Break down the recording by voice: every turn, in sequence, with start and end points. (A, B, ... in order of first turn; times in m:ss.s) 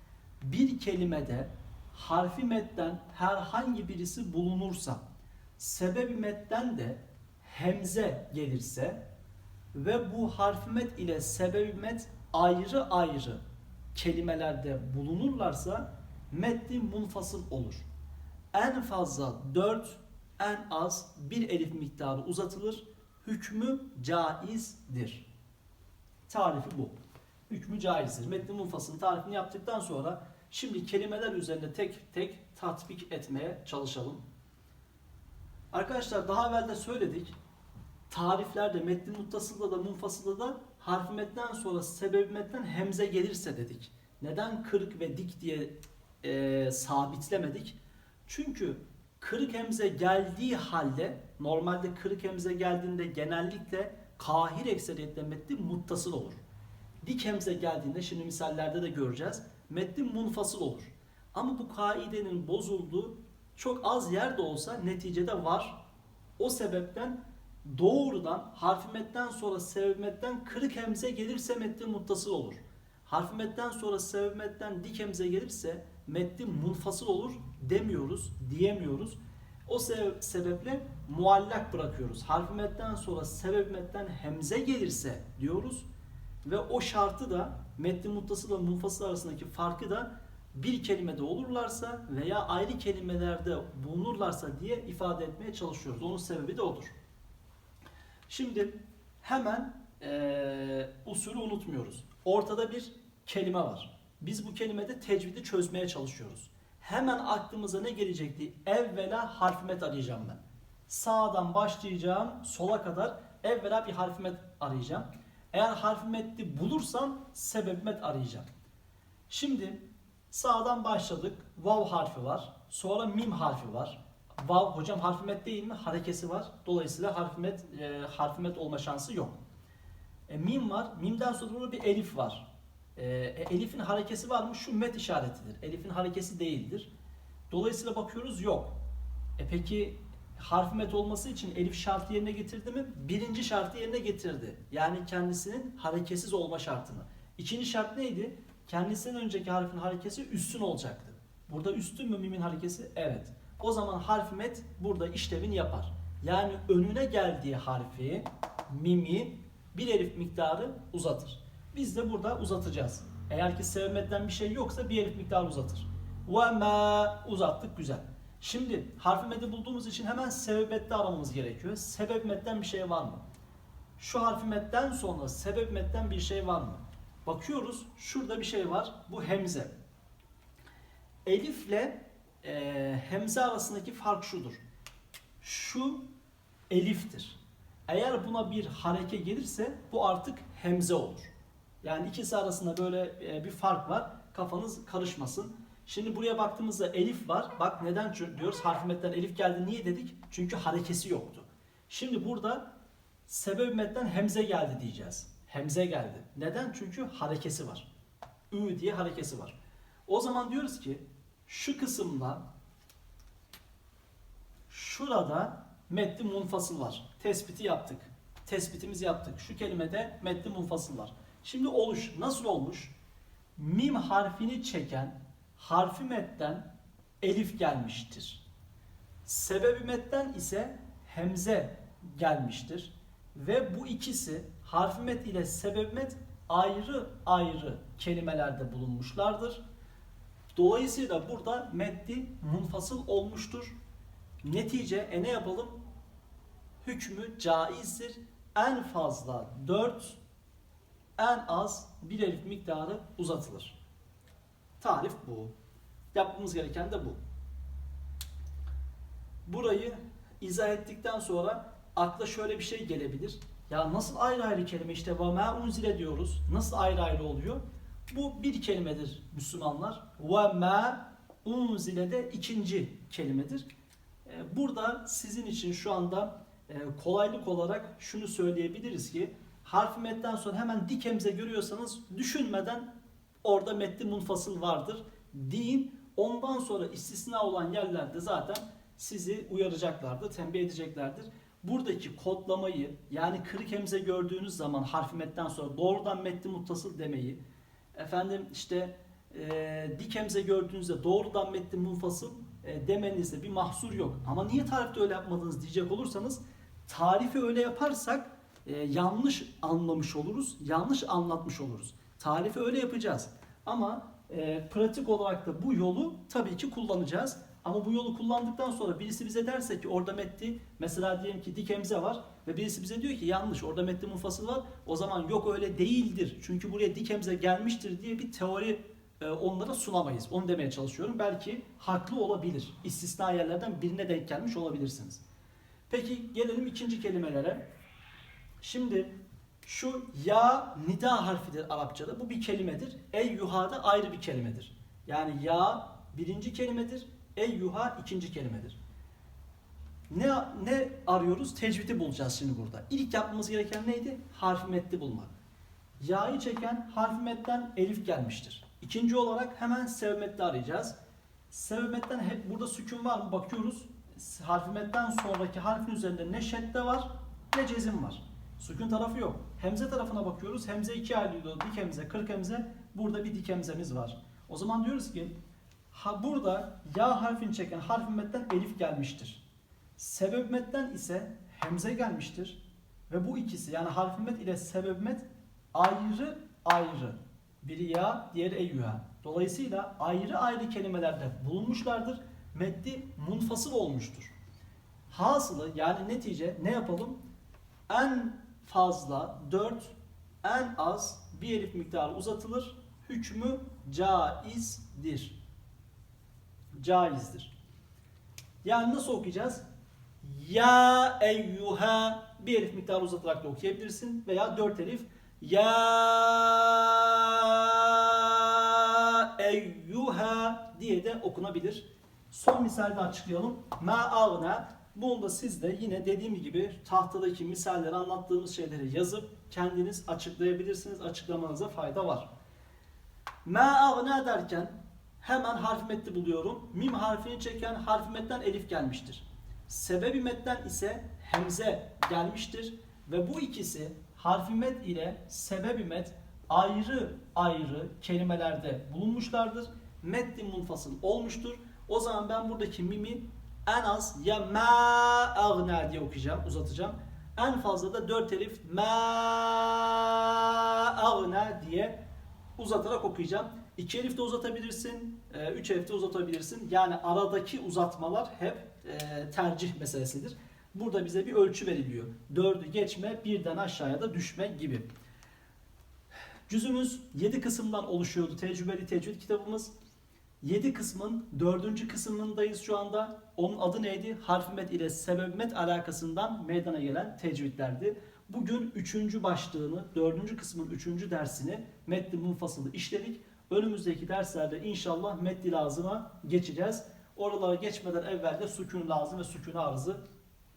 0:00.4-0:05.0 A
0:05.6-0:09.0 A
0:09.7-0:13.4 A
0:13.9-0:17.9 A
0:18.5-0:25.3 A
0:26.3-0:26.9 A
0:27.5-0:34.2 A
0:35.7-0:37.3 A
0:38.1-0:56.4 A
0:57.0-1:05.8 A
1:06.4-1:25.9 A
1:26.4-1:36.9 A
1:38.3-1:58.4 A
1:59.3-2:09.4 A
2:10.3-2:16.9 A
2:17.5-2:18.7 A
2:19.4-2:53.2 A
2:54.0-2:59.7 A
3:01.2-3:04.6 A
3:05.4-3:06.0 A
3:06.7-3:11.3 A
3:11.8-3:22.6 A
3:23.3-3:27.9 A
3:28.5-3:29.6 A
3:30.1-3:32.4 A
3:34.7-3:42.9 A
3:43.6-3:46.7 A
3:47.2-3:48.4 A
3:49.2-3:59.6 A
4:00.5-4:03.7 A
4:04.4-4:05.8 A
4:06.8-4:10.2 A
4:11.2-4:13.8 A
4:14.8-4:15.5 A
4:16.1-4:17.2 A
4:19.4-4:33.7 A
4:34.2-4:42.9 A
4:43.4-4:57.4 A
4:57.9-5:35.2 A
5:35.9-5:37.6 A
5:38.6-5:48.8 A
5:50.1-5:55.3 A
5:56.0-6:01.0 A
6:01.5-6:15.3 A
6:15.9-6:19.4 A
6:20.0-6:34.3 A
6:35.1-6:37.2 A
6:37.9-6:45.4 A
6:46.7-6:47.5 A
6:48.6-6:49.6 A
6:50.2-7:12.3 A
7:13.4-7:42.0 A
7:42.6-7:54.9 A
7:56.5-7:59.7 A
8:00.4-8:20.0 A